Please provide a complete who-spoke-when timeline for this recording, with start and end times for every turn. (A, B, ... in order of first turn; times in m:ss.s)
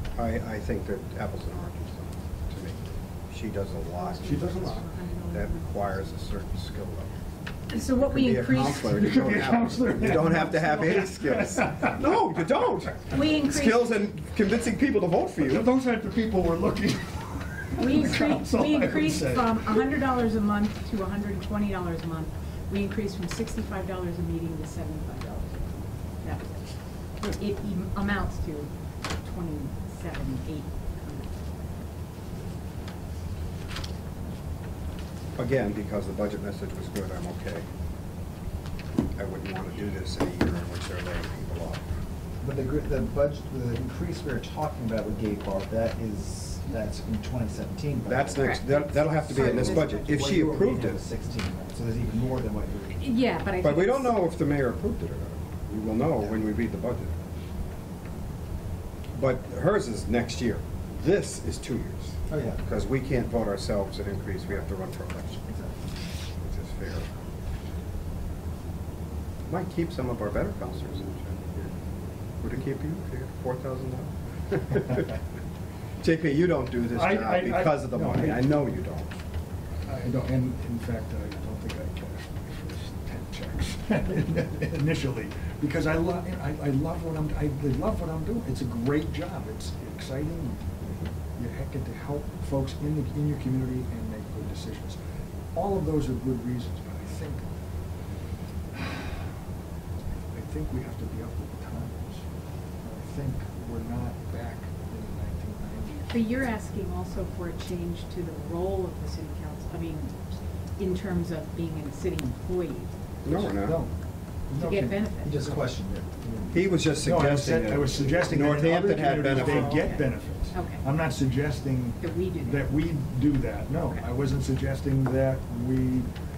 0:00.2-0:07.1 A
0:03.9-0:06.2 B
0:04.2-0:04.8 C
0:07.7-0:08.9 B
0:07.7-0:15.7 A
0:08.5-0:12.1 C
0:10.2-0:11.0 B
0:13.1-0:14.0 B
0:15.4-0:19.8 C
0:17.8-0:26.6 B
0:27.2-0:31.5 B
0:35.4-0:37.6 A
0:39.2-0:41.8 A
0:42.4-0:48.6 D
0:48.0-0:51.0 A
0:48.4-0:50.2 B
0:49.2-0:53.0 D
0:52.9-0:54.2 B
0:53.6-0:57.1 A
0:59.1-1:05.6 A
1:02.3-1:02.6 D
1:06.4-1:07.1 A
1:09.5-1:11.8 A
1:12.4-1:15.1 A
1:16.0-1:19.1 A
1:16.9-1:18.5 C
1:19.8-1:30.7 C
1:31.4-1:35.0 C
1:35.5-1:37.4 C
1:38.7-1:39.2 C
1:40.3-1:42.2 C
1:42.8-1:46.2 C
1:46.1-1:50.2 B
1:50.8-1:52.9 B
1:53.2-1:53.8 A
1:53.2-1:53.9 C
1:54.5-1:55.7 C
1:54.5-1:55.3 B
1:55.2-1:56.8 D
1:56.2-2:06.1 C
1:56.5-1:59.8 A
1:59.3-2:00.8 B
2:02.0-2:02.7 B